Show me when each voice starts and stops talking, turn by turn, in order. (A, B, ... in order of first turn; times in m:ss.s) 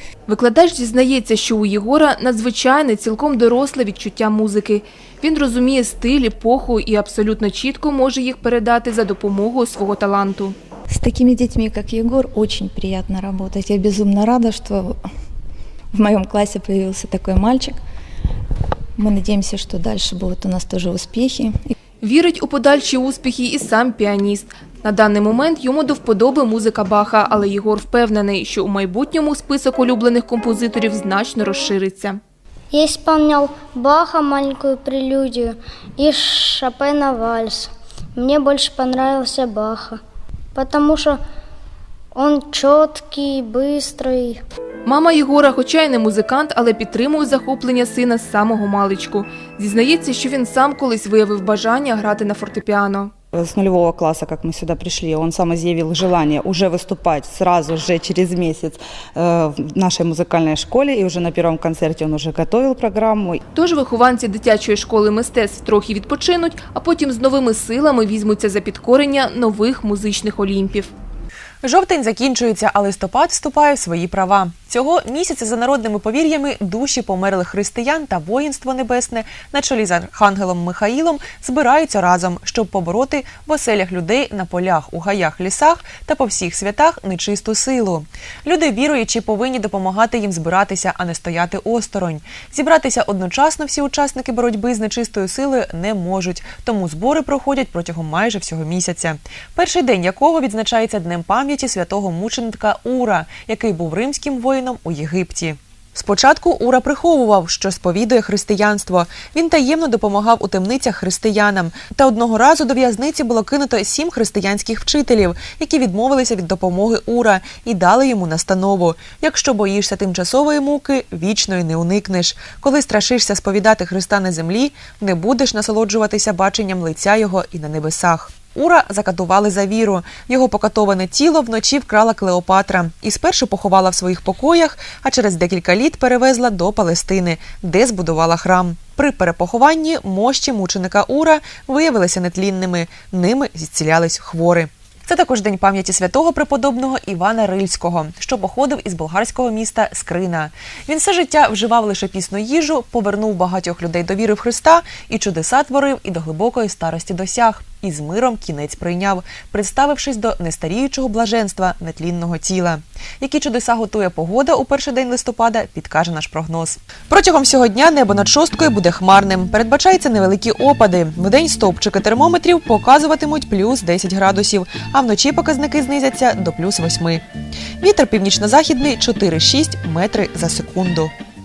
0:00.3-0:10.6 A
0:10.9-0:15.0 B
0:15.9-0:17.8 B
0:19.0-0:21.7 B
0:22.0-0:32.2 A
0:32.7-0:40.0 C
0:40.6-0:41.2 C
0:42.2-0:44.4 C
0:44.9-0:53.1 A
0:53.3-1:03.4 D
1:03.6-1:10.9 A
1:11.6-2:57.2 E
2:57.8-3:01.1 E